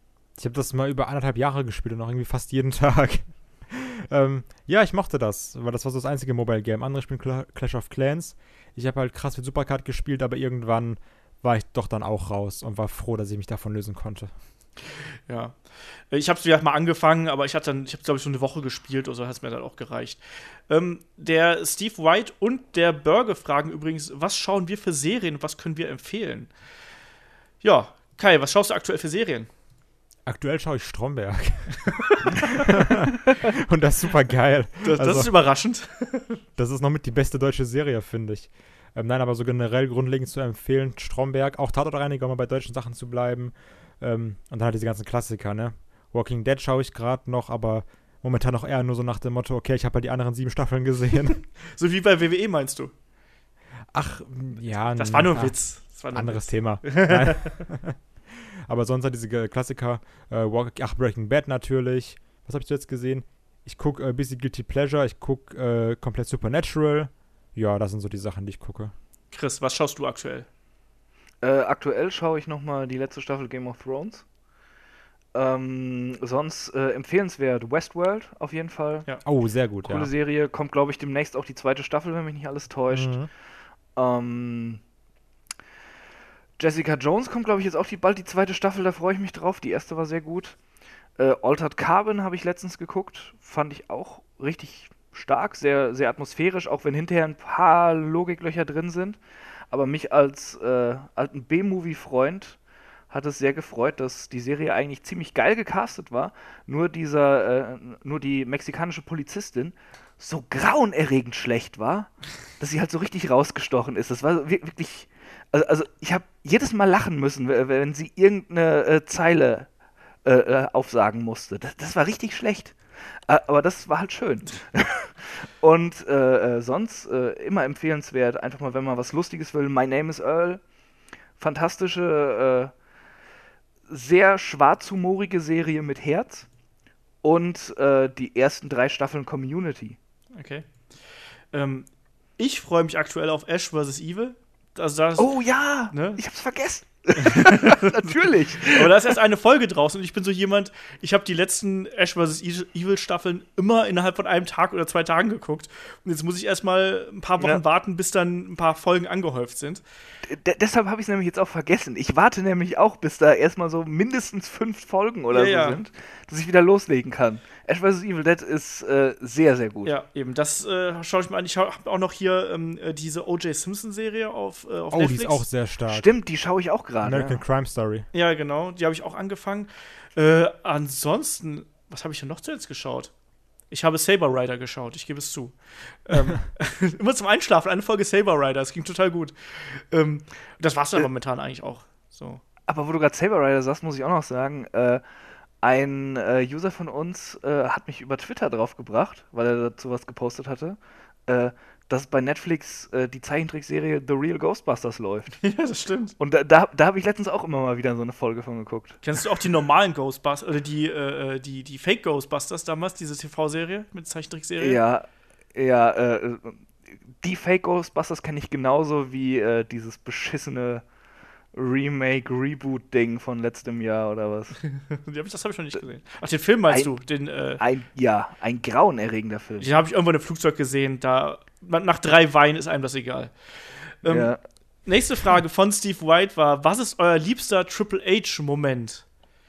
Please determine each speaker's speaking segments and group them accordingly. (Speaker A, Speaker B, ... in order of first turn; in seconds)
Speaker A: 0.4-14.3, 30.2-35.3, 36.6-51.5, 53.9-58.0, 58.7-68.9, 79.2-80.1, 82.9-83.3, 174.9-176.1, 177.0-178.1
Speaker B: 15.3-26.5, 27.6-29.5, 34.8-36.4, 51.7-52.9, 54.9-57.6, 69.3-70.5, 140.3-140.9, 141.5-145.3, 145.9-146.2, 147.2-147.9, 148.7-159.8, 165.3-165.8, 169.8-175.4, 178.1-183.1, 183.7-192.4, 205.4-206.1, 209.0-214.8, 224.7-227.6, 229.6-233.3, 233.8-234.3, 234.8-239.1
Speaker C: 71.4-74.2, 75.3-79.1, 79.8-83.2, 84.0-84.8, 86.6-90.5, 91.2-99.2, 99.7-102.6, 103.1-119.7, 120.2-130.6, 131.4-132.7, 133.9-136.5, 137.2-140.0, 145.2-148.9, 160.2-169.9, 175.9-177.4, 192.7-195.0, 195.6-205.3, 206.2-209.0, 214.6-216.6, 217.2-220.8, 221.5-224.6, 227.6-229.7, 234.0-234.4